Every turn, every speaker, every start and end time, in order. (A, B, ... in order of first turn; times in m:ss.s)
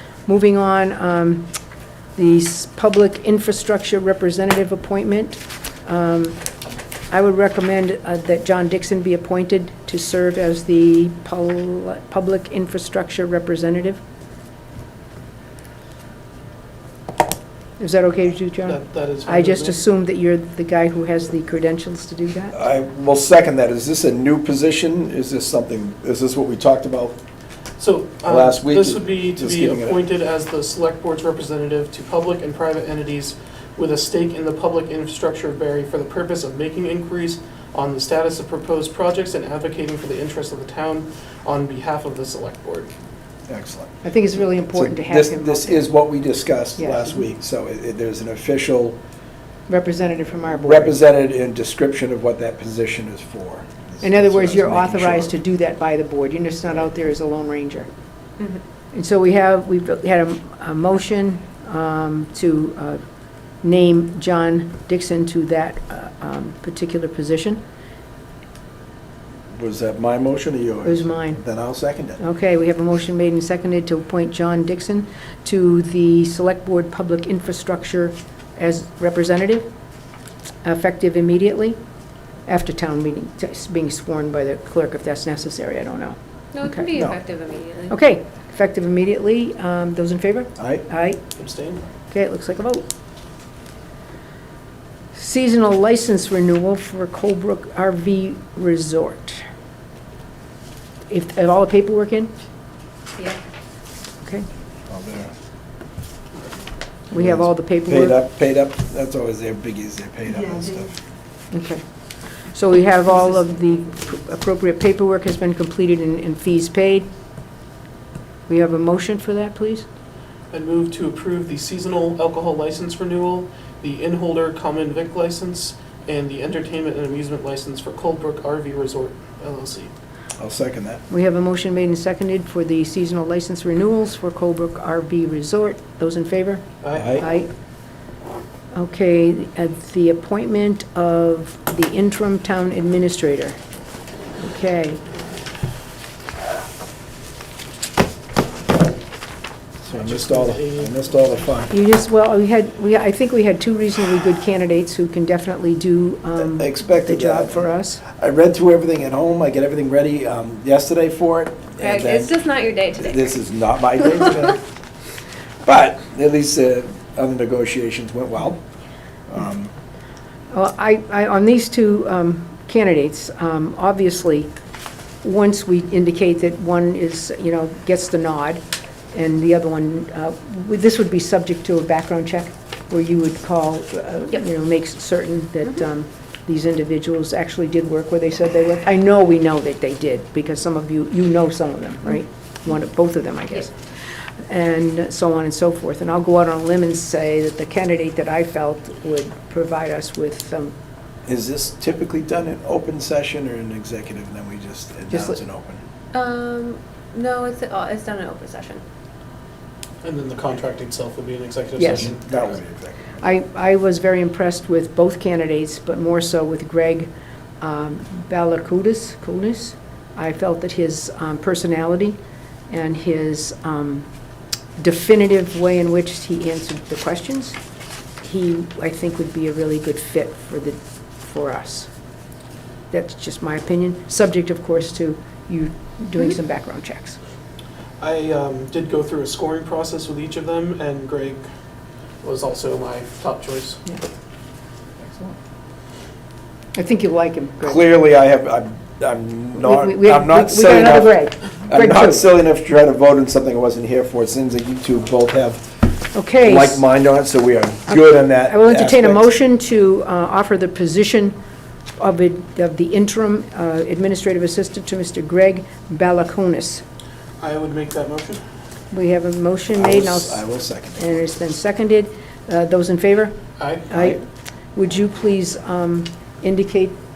0:00.3-0:01.5 A
0:02.2-0:06.4 A
0:07.1-0:14.0 A
0:17.8-0:22.6 A
0:18.7-0:19.8 B
0:22.5-0:27.2 C
0:27.8-0:42.9 B
0:28.2-0:30.0 C
0:43.5-0:44.0 C
0:44.0-0:45.8 A
0:44.7-0:49.0 C
0:46.8-0:47.2 A
0:49.7-0:51.0 A
0:50.6-0:55.3 C
0:54.0-0:57.9 A
0:58.9-1:03.0 A
1:03.6-1:07.6 A
1:09.6-1:12.2 C
1:10.8-1:11.4 A
1:12.2-1:19.7 A
1:20.6-1:21.8 A
1:22.4-1:27.0 A
1:26.5-1:28.0 D
1:27.9-1:31.2 A
1:30.6-1:30.8 C
1:31.4-1:31.8 B
1:32.1-1:32.9 A
1:35.1-1:39.4 A
1:41.1-1:42.3 A
1:44.9-1:45.3 C
1:47.1-1:48.2 A
1:47.1-1:50.9 C
1:51.5-1:51.8 A
1:52.5-1:57.1 A
1:58.5-1:59.8 A
2:00.5-2:09.9 B
2:10.4-2:11.0 C
2:11.1-2:17.5 A
2:16.8-2:17.2 B
2:16.9-2:17.2 C
2:18.7-2:23.6 A
2:24.4-2:25.0 A
2:29.8-2:31.7 C
2:29.9-2:31.4 B
2:31.7-2:38.0 A
2:36.4-2:44.6 C
2:41.8-2:43.4 D
2:44.0-2:44.3 D
2:45.6-2:48.6 C
2:49.3-2:49.7 C
2:50.5-2:54.5 A
2:55.2-3:20.8 A
3:21.3-3:25.8 C
3:25.1-3:25.4 A
3:26.1-3:28.8 D
3:30.0-3:32.2 B
3:31.8-3:32.1 A
3:31.8-3:33.2 C
3:33.2-3:42.2 A
3:42.7-3:44.1 A
3:44.8-3:47.6 A
3:48.2-3:51.9 A
3:52.9-3:57.2 A
3:58.0-4:01.4 B
4:02.2-4:03.8 B
4:06.7-4:07.8 A
4:07.6-4:15.8 C
4:09.6-4:12.2 A
4:16.1-4:16.8 A
4:16.4-4:19.3 C
4:17.9-4:21.4 A
4:22.0-4:26.8 A
4:27.4-4:28.4 B
4:28.9-4:34.2 A
4:29.7-4:31.3 C
4:33.6-4:33.9 B
4:34.8-4:37.0 A